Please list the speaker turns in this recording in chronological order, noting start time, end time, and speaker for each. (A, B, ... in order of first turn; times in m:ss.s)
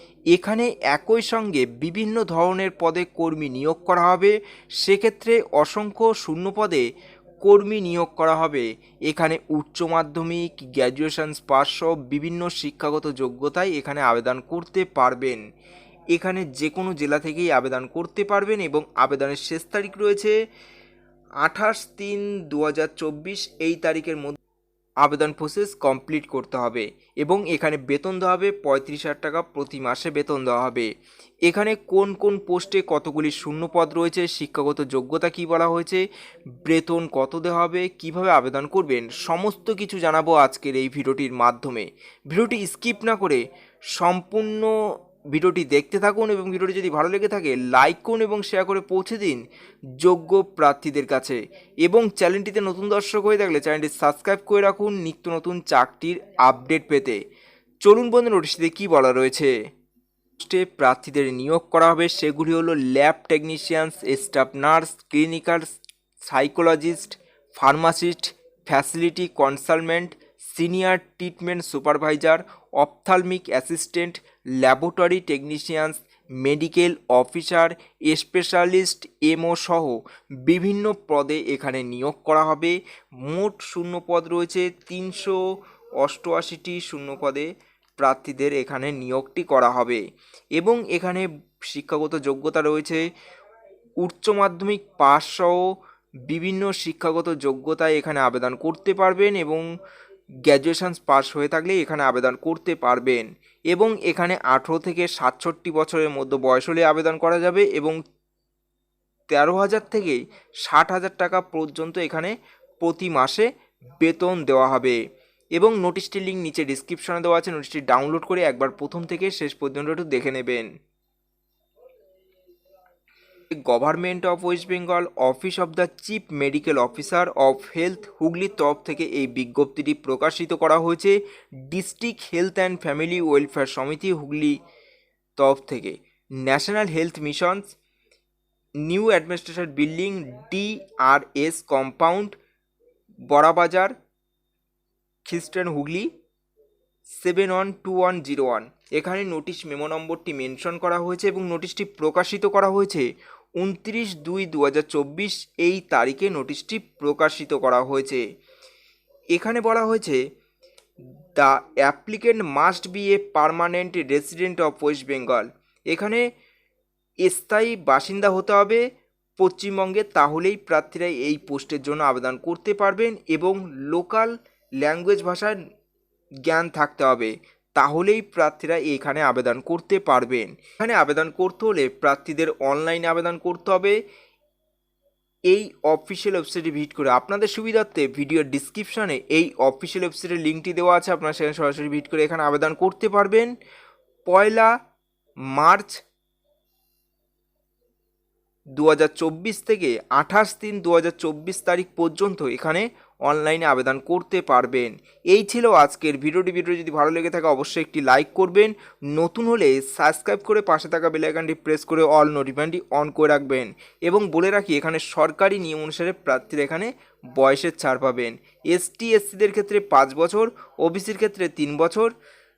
0:00.3-0:06.9 A
0:07.4-0:15.4 A
0:16.1-0:20.4 A
0:21.4-0:24.4 A
0:25.0-0:30.9 A
0:31.4-0:36.0 A
0:36.6-0:44.8 A
0:45.3-0:49.4 A
0:50.0-0:57.2 A
0:57.8-0:59.6 A
1:00.4-1:30.0 A
1:30.6-1:33.1 A
1:34.0-1:35.7 A
1:36.3-1:39.6 A
1:40.4-1:48.0 A
1:49.3-1:53.5 A
1:54.0-1:55.0 A
1:55.6-2:00.7 A
2:03.5-2:14.6 A
2:15.4-2:17.8 A
2:18.8-2:22.4 A
2:23.3-2:24.0 A
2:25.2-2:26.1 A
2:27.1-2:38.2 A
2:39.3-2:40.2 A
2:41.3-2:46.3 A
2:47.2-2:48.8 A
2:49.4-2:55.6 A
2:56.4-3:04.0 A
3:05.5-3:13.5 A
3:14.3-3:14.8 A
3:15.5-3:16.0 A
3:18.8-3:42.1 A